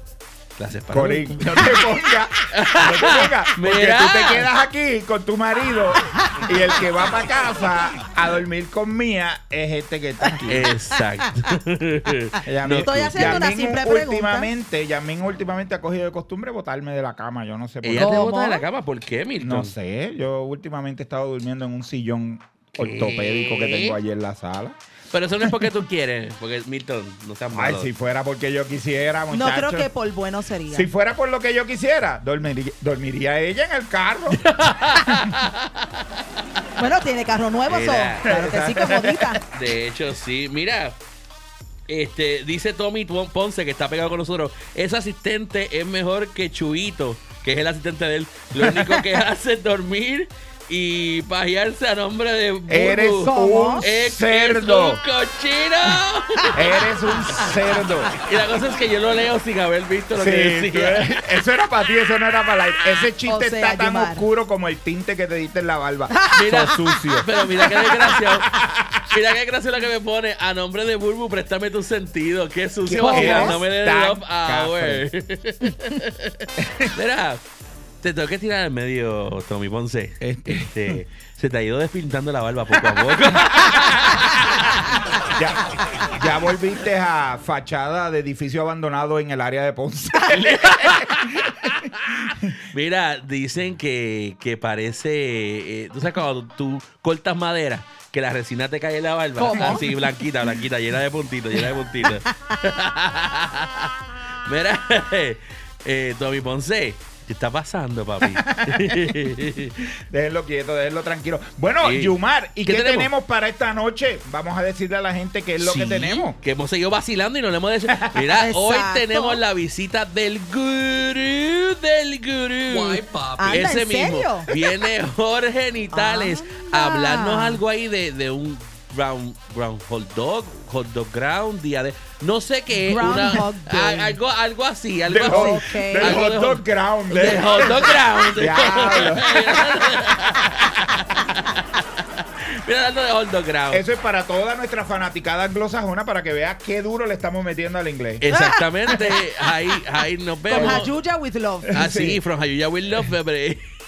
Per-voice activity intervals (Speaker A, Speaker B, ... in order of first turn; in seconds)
Speaker A: 0.6-4.5, 10.5-13.5, 17.8-19.7, 22.8-24.0, 25.1-27.9, 34.4-35.9, 37.7-38.6, 39.4-41.0, 41.9-56.8, 58.1-61.2, 66.3-68.5, 69.1-77.4, 78.0-85.3, 90.3-103.9, 104.5-109.8, 111.8-113.1, 115.6-143.8, 148.2-150.9, 151.7-153.6
Speaker B: 0.9-10.7, 12.4-18.4, 19.4-24.8, 27.5-29.9, 30.7-34.5, 35.0-35.3, 38.3-39.4, 52.7-55.0, 56.5-58.1, 60.1-69.1, 72.9-75.1, 76.6-76.9, 80.2-81.0, 82.9-84.2, 85.3-91.7, 99.5-99.8, 108.4-109.2, 110.1-116.4, 135.1-139.9, 143.7-148.3, 150.5-150.9, 151.7-152.2
Speaker C: 12.8-14.5, 18.0-18.6, 29.3-30.9, 36.8-39.4, 53.2-53.9, 63.2-64.2, 66.1-66.5, 73.0-73.6, 99.4-99.9, 118.4-119.4, 123.4-124.5, 125.9-127.6, 132.9-134.2, 135.2-136.2, 148.3-149.2, 150.5-151.7